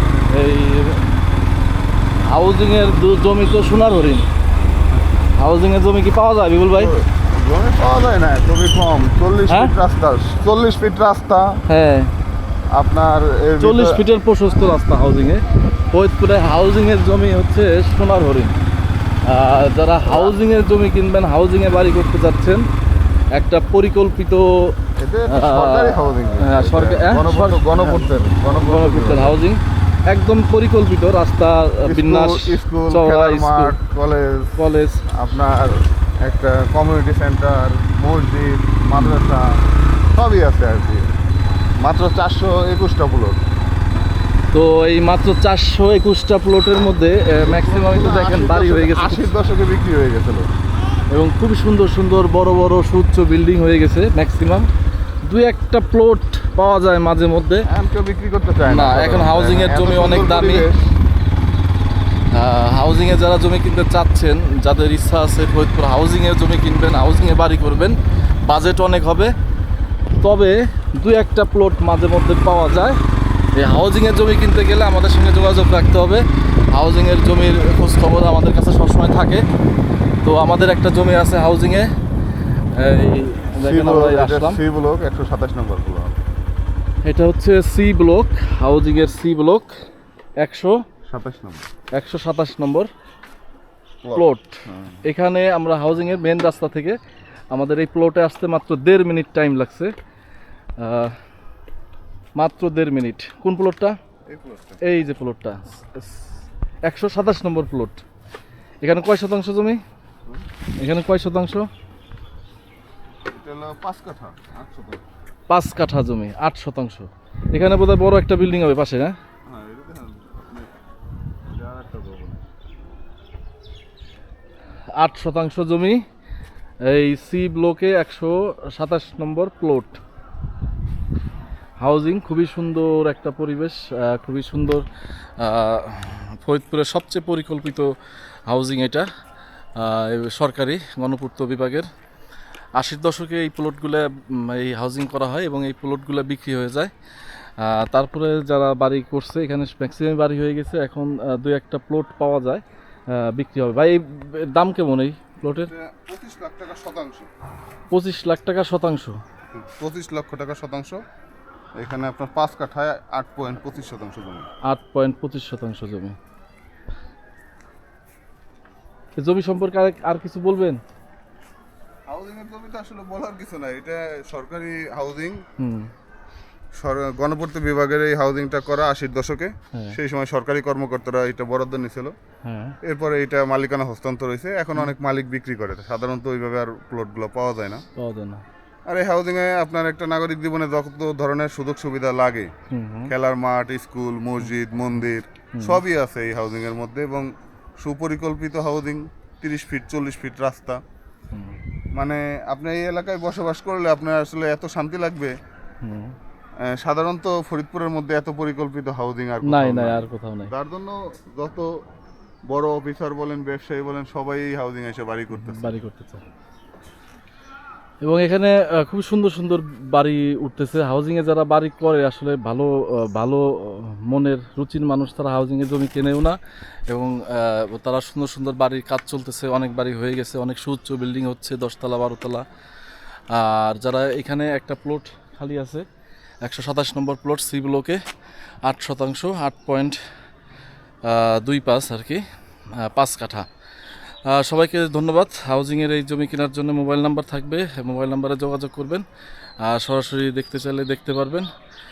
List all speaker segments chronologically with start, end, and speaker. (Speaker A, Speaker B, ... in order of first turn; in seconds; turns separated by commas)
Speaker A: 0.3-1.1, Speaker A: 2.2-4.3, Speaker A: 5.4-6.9, Speaker B: 6.7-11.6, Speaker A: 9.5-9.7, Speaker A: 11.7-12.1, Speaker B: 12.7-14.0, Speaker A: 13.6-18.6, Speaker A: 19.2-22.7, Speaker B: 20.0-20.4, Speaker A: 23.3-24.8, Speaker B: 25.0-29.4, Speaker A: 25.3-33.7, Speaker B: 31.8-34.5, Speaker A: 34.6-35.0, Speaker B: 35.1-39.6, Speaker B: 40.1-41.1, Speaker B: 41.8-43.4, Speaker A: 44.5-49.3, Speaker B: 47.4-50.5, Speaker A: 51.1-54.7, Speaker A: 55.2-57.6, Speaker B: 57.6-60.9, Speaker A: 58.6-60.7, Speaker A: 62.3-69.3, Speaker A: 70.2-73.0, Speaker A: 73.5-79.4, Speaker A: 80.2-81.9, Speaker A: 82.7-84.6, Speaker B: 83.6-86.2, Speaker A: 87.0-89.7, Speaker A: 90.4-90.8, Speaker B: 91.1-91.7, Speaker A: 91.9-92.9, Speaker B: 94.0-95.0, Speaker A: 94.1-97.0, Speaker A: 97.5-99.9, Speaker A: 100.8-101.2, Speaker A: 102.3-104.0, Speaker B: 104.3-104.8, Speaker A: 104.8-108.0, Speaker A: 108.8-109.8, Speaker A: 110.8-111.7, Speaker B: 113.3-115.0, Speaker A: 115.5-119.2, Speaker B: 119.5-120.7, Speaker B: 121.5-122.5, Speaker A: 124.9-126.0, Speaker A: 126.8-130.0, Speaker A: 131.8-134.8, Speaker A: 135.4-137.9, Speaker A: 138.5-139.1, Speaker A: 139.8-141.9, Speaker A: 142.8-146.9, Speaker A: 147.6-155.7, Speaker B: 155.7-157.3, Speaker A: 157.9-159.2, Speaker B: 159.6-161.0, Speaker B: 161.8-164.5, Speaker A: 164.6-166.2, Speaker A: 169.2-170.8, Speaker B: 172.1-175.4, Speaker A: 175.6-175.9, Speaker B: 176.8-182.1, Speaker A: 182.4-182.8, Speaker B: 182.8-187.8, Speaker A: 188.0-188.4, Speaker B: 188.9-192.5, Speaker A: 192.7-193.1, Speaker B: 193.1-200.8, Speaker A: 195.5-195.8, Speaker A: 201.3-201.6, Speaker B: 201.9-205.3, Speaker A: 205.8-206.2, Speaker B: 206.6-211.7, Speaker A: 209.4-210.5, Speaker B: 212.5-215.8, Speaker A: 215.3-216.2, Speaker A: 218.0-226.4, Speaker A: 226.9-232.4, Speaker A: 233.3-235.8, Speaker A: 236.4-238.0, Speaker A: 238.6-240.0, Speaker A: 241.0-242.2, Speaker A: 242.8-243.5, Speaker A: 244.3-249.0, Speaker A: 249.6-251.5